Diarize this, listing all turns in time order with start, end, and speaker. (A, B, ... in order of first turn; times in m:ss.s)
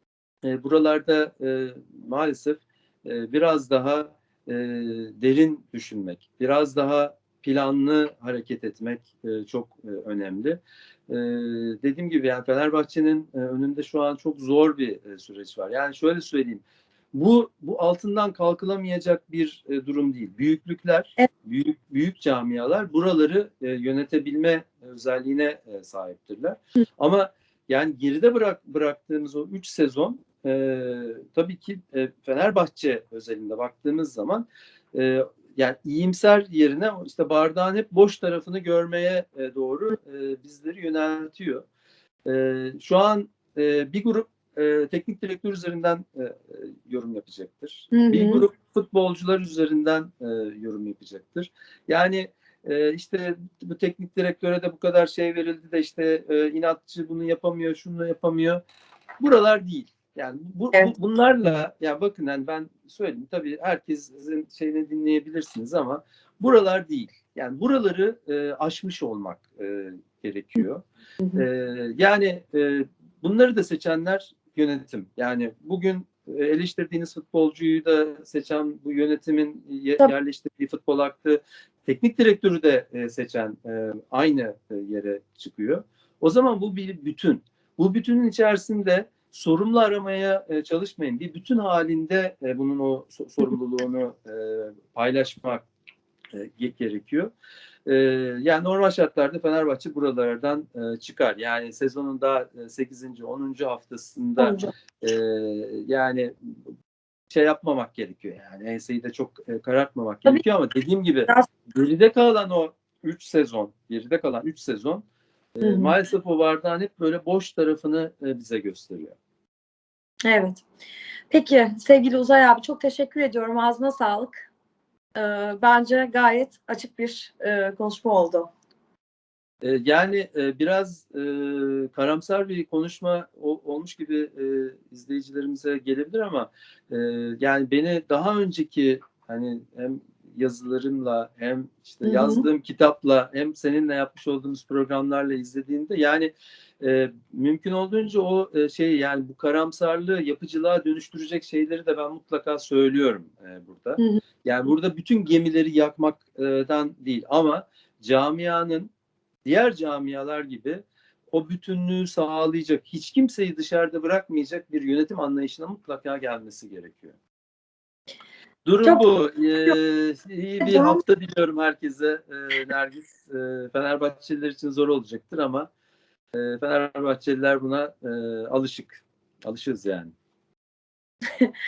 0:00.4-0:41.6 A
0:42.2-0:58.6 A
0:47.9-0:48.4 B
0:59.2-1:10.8 A
1:11.3-1:35.6 A
1:36.3-1:37.3 A
1:37.8-1:46.6 A
1:44.4-1:44.7 B
1:47.3-1:55.0 A
1:55.6-1:59.2 A
1:55.6-1:55.9 B
2:00.2-2:00.6 B
2:01.3-2:04.5 B
2:05.2-2:08.5 B
2:09.6-2:38.9 A
2:22.0-2:22.4 B
2:39.4-2:47.2 A
2:48.6-2:55.7 A
2:50.6-2:51.0 B
2:56.3-3:00.1 A